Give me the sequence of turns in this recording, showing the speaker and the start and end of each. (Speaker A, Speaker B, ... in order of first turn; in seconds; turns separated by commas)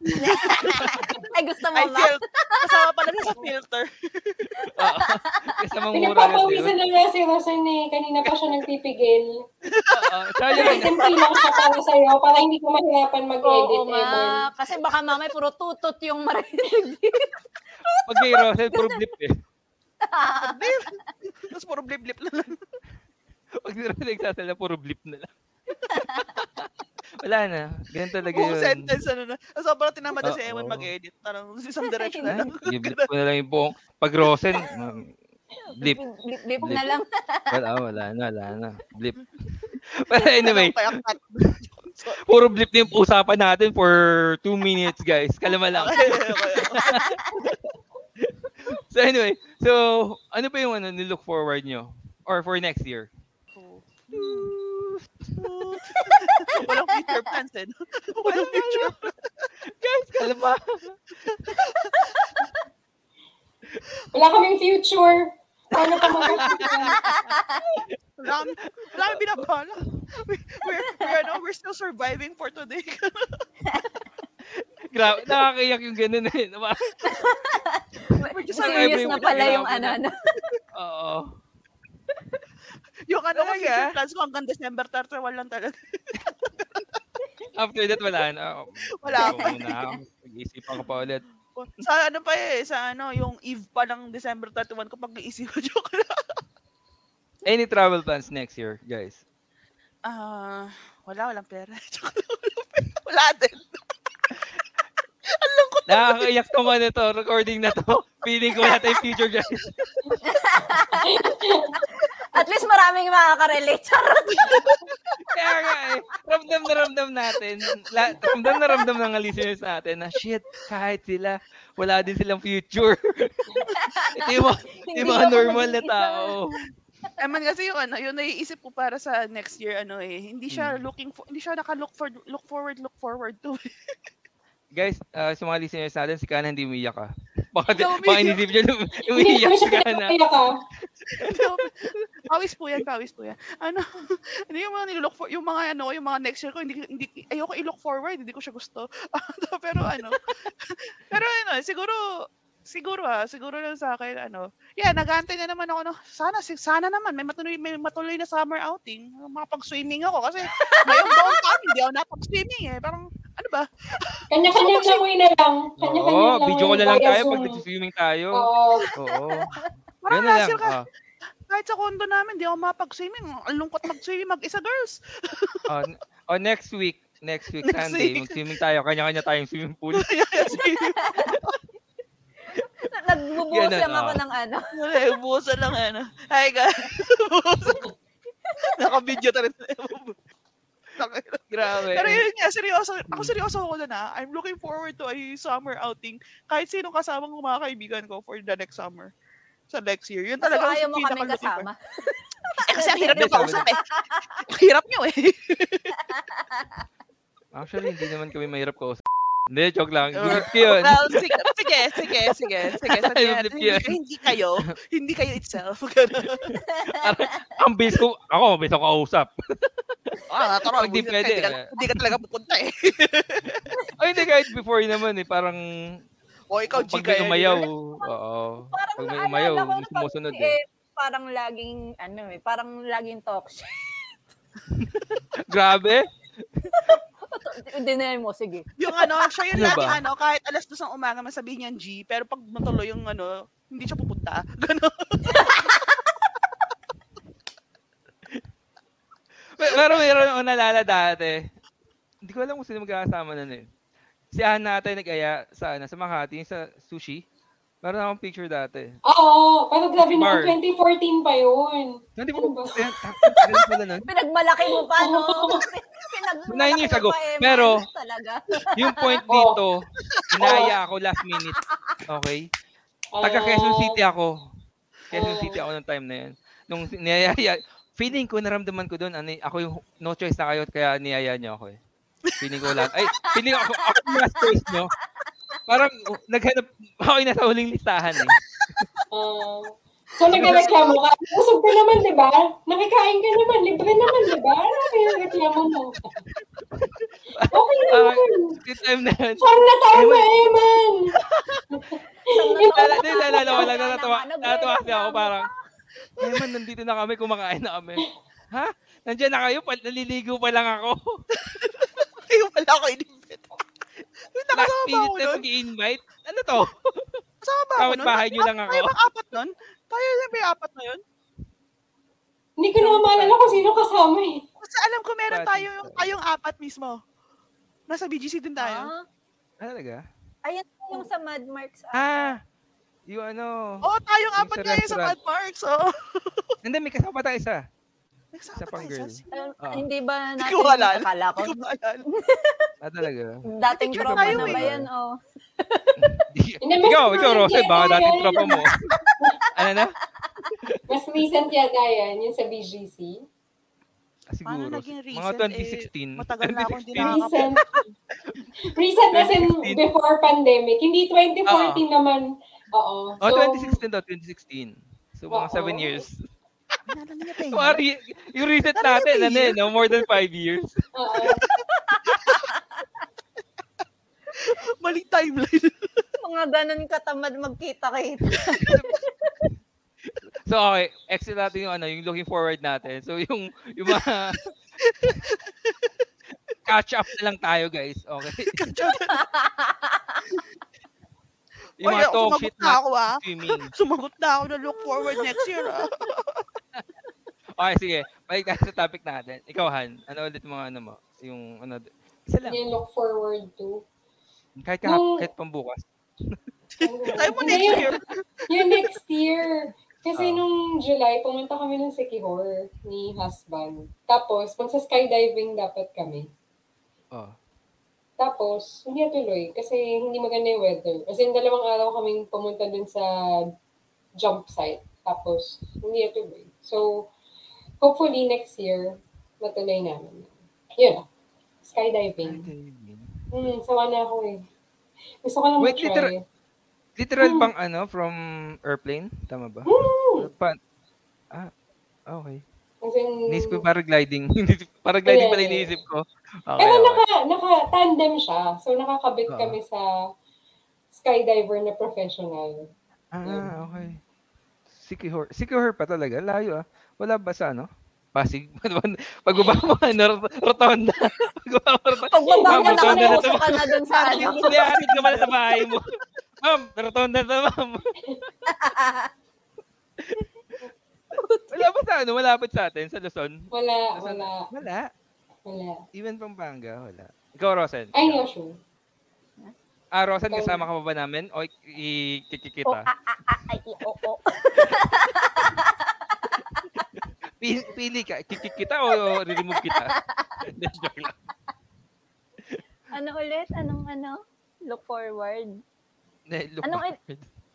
Speaker A: 0.2-3.3, Speaker B: 0.3-0.9, Speaker C: 0.6-1.0, Speaker B: 1.7-4.7, Speaker A: 4.6-5.6, Speaker C: 4.8-6.7, Speaker D: 5.9-9.3, Speaker B: 9.7-10.1, Speaker C: 9.9-11.0, Speaker D: 10.5-14.4, Speaker A: 10.6-10.9, Speaker A: 13.4-19.0, Speaker C: 18.1-19.3, Speaker A: 20.0-20.8, Speaker B: 20.4-22.6, Speaker C: 23.6-25.3, Speaker A: 25.9-26.3, Speaker C: 26.1-26.7, Speaker C: 27.2-28.9, Speaker B: 28.3-33.0, Speaker C: 30.2-30.9, Speaker A: 31.9-32.4, Speaker C: 32.2-35.1, Speaker A: 35.6-37.6, Speaker C: 36.6-36.9, Speaker C: 37.5-40.8, Speaker B: 40.2-42.2, Speaker C: 42.2-47.5, Speaker B: 45.7-47.0, Speaker A: 46.8-47.4, Speaker C: 48.2-53.1, Speaker B: 53.5-54.5, Speaker C: 54.1-56.0, Speaker B: 55.4-59.5, Speaker C: 58.2-59.1, Speaker C: 59.7-61.6, Speaker B: 61.5-62.3, Speaker D: 64.1-67.0, Speaker C: 66.2-67.2, Speaker B: 66.2-67.0, Speaker A: 67.0-67.7, Speaker B: 68.2-73.4, Speaker C: 68.3-69.5, Speaker A: 70.9-71.3, Speaker A: 73.7-74.0, Speaker C: 74.5-76.9, Speaker A: 77.0-80.1, Speaker B: 78.2-79.7, Speaker C: 78.5-80.0, Speaker C: 80.7-81.3, Speaker B: 83.1-87.0, Speaker C: 83.3-83.9, Speaker C: 87.5-91.2, Speaker B: 89.0-89.8, Speaker A: 89.2-90.0, Speaker B: 91.5-96.2, Speaker C: 97.4-99.2, Speaker B: 100.0-103.8, Speaker B: 105.3-106.3, Speaker C: 105.9-110.2, Speaker B: 108.6-109.0, Speaker A: 110.2-111.2, Speaker D: 111.0-111.8, Speaker A: 111.8-114.7, Speaker B: 114.5-114.8, Speaker C: 115.3-126.6, Speaker A: 118.2-118.8, Speaker A: 123.7-126.4, Speaker B: 127.2-133.7, Speaker C: 130.5-130.8, Speaker C: 134.7-140.1, Speaker B: 137.7-138.4, Speaker D: 139.1-140.5, Speaker C: 141.0-141.7, Speaker B: 141.2-152.0, Speaker B: 152.7-165.0, Speaker A: 160.5-161.4, Speaker D: 164.3-167.6, Speaker C: 165.8-169.5, Speaker D: 168.3-168.8, Speaker A: 169.0-169.7, Speaker B: 170.0-170.7, Speaker C: 170.1-170.8, Speaker B: 171.5-175.6, Speaker C: 175.7-180.1, Speaker B: 177.6-178.4, Speaker B: 179.9-181.6, Speaker A: 180.5-181.4, Speaker A: 182.8-185.0, Speaker C: 183.5-184.2, Speaker B: 184.7-187.8, Speaker A: 188.4-188.9, Speaker B: 188.6-190.2, Speaker B: 191.0-199.1, Speaker C: 191.5-192.2, Speaker B: 199.7-201.7, Speaker A: 200.4-204.4, Speaker B: 202.6-203.8, Speaker C: 203.1-203.6, Speaker B: 204.4-205.9, Speaker A: 206.0-206.8, Speaker C: 207.5-211.3, Speaker B: 210.1-216.5, Speaker C: 212.0-214.0, Speaker C: 216.2-220.2, Speaker A: 216.9-217.3, Speaker B: 220.3-223.8, Speaker C: 220.7-222.2, Speaker C: 224.0-226.0, Speaker B: 226.5-227.6, Speaker C: 226.7-230.6, Speaker A: 228.7-234.2, Speaker C: 234.7-236.7, Speaker A: 236.7-239.2, Speaker B: 238.8-245.8, Speaker C: 239.5-240.0, Speaker A: 245.3-245.7, Speaker C: 249.5-251.4, Speaker C: 252.2-253.7, Speaker C: 254.3-257.2, Speaker C: 257.8-259.0, Speaker D: 259.1-263.4, Speaker C: 260.0-260.6, Speaker C: 262.2-264.1, Speaker A: 264.1-269.2, Speaker D: 265.0-265.6, Speaker C: 266.5-267.9, Speaker C: 268.7-272.5, Speaker D: 269.3-269.6, Speaker D: 270.4-270.7, Speaker D: 273.1-274.0, Speaker C: 273.2-274.5, Speaker C: 275.1-281.8, Speaker D: 275.1-275.6, Speaker C: 282.4-284.9, Speaker A: 282.9-284.7, Speaker C: 285.7-288.4, Speaker D: 289.1-296.2, Speaker C: 290.3-290.9, Speaker C: 296.7-300.4, Speaker D: 297.5-298.6, Speaker D: 299.4-301.1, Speaker C: 301.2-301.6, Speaker D: 301.7-303.6, Speaker A: 302.3-305.6, Speaker C: 302.6-305.5, Speaker C: 306.2-311.0, Speaker B: 311.4-313.5, Speaker B: 314.3-315.4, Speaker C: 314.5-317.2, Speaker B: 317.4-321.0, Speaker C: 317.8-318.9, Speaker D: 322.6-324.4, Speaker C: 322.8-323.7, Speaker B: 324.6-327.0, Speaker C: 325.3-326.1, Speaker B: 327.9-328.9, Speaker A: 328.6-329.0, Speaker C: 329.6-330.0, Speaker A: 330.4-332.3, Speaker C: 331.9-332.4, Speaker C: 333.1-333.8, Speaker B: 333.8-336.5, Speaker C: 334.4-335.1, Speaker C: 336.6-337.6, Speaker B: 338.3-339.5, Speaker C: 338.5-339.8, Speaker A: 339.3-341.6, Speaker B: 340.4-342.0, Speaker A: 342.1-342.7, Speaker C: 342.8-344.9, Speaker A: 343.5-346.0, Speaker B: 343.7-344.6, Speaker C: 346.0-348.8, Speaker D: 346.6-348.6, Speaker A: 348.5-349.1, Speaker C: 349.5-349.9, Speaker A: 350.2-350.5, Speaker D: 350.9-353.2, Speaker C: 354.3-357.6, Speaker B: 354.4-357.6, Speaker D: 357.0-357.6, Speaker D: 358.6-363.8, Speaker C: 359.1-359.8, Speaker C: 361.5-361.8, Speaker C: 363.2-366.2, Speaker D: 365.3-366.0, Speaker B: 366.9-367.8, Speaker C: 367.5-370.8, Speaker B: 368.8-370.1, Speaker D: 370.9-371.4, Speaker A: 371.9-372.8, Speaker B: 372.1-372.5, Speaker B: 374.4-376.0, Speaker A: 376.2-379.3, Speaker C: 378.6-378.9, Speaker C: 380.4-384.4, Speaker B: 384.9-385.9, Speaker C: 386.7-388.7, Speaker B: 388.5-389.3, Speaker A: 389.1-390.2, Speaker C: 391.8-393.7, Speaker B: 391.8-393.2, Speaker B: 393.7-396.4, Speaker A: 394.8-395.7, Speaker C: 397.6-402.6, Speaker D: 402.4-403.8, Speaker C: 404.6-406.4, Speaker D: 404.8-405.2, Speaker B: 406.8-408.3, Speaker D: 406.8-407.9, Speaker D: 408.5-416.3, Speaker C: 410.1-410.4, Speaker D: 418.2-423.5, Speaker D: 424.2-427.1, Speaker D: 427.8-431.0, Speaker D: 431.6-432.5, Speaker C: 432.2-433.1, Speaker D: 433.3-434.4, Speaker D: 435.2-436.2, Speaker C: 435.6-436.1, Speaker C: 436.9-440.6, Speaker D: 437.2-437.5, Speaker D: 439.7-440.3, Speaker C: 442.1-442.4, Speaker D: 442.8-443.6, Speaker C: 443.3-447.0, Speaker D: 445.1-445.8, Speaker D: 446.6-449.9, Speaker C: 449.3-449.6, Speaker D: 450.9-452.7, Speaker C: 453.1-454.0, Speaker D: 453.2-453.6, Speaker C: 454.7-465.9, Speaker A: 462.1-465.2, Speaker D: 462.3-464.4, Speaker B: 464.9-465.3, Speaker C: 466.4-467.9, Speaker A: 468.4-469.1, Speaker C: 470.0-470.2, Speaker A: 471.1-471.7, Speaker C: 471.5-474.9, Speaker D: 473.5-474.5, Speaker D: 475.5-475.8, Speaker C: 475.9-478.2, Speaker D: 477.9-478.6, Speaker C: 479.9-482.9, Speaker D: 480.3-480.6, Speaker A: 482.6-486.7, Speaker C: 487.4-491.1, Speaker A: 488.9-490.4, Speaker A: 492.9-495.6, Speaker C: 496.3-497.3, Speaker A: 496.6-497.0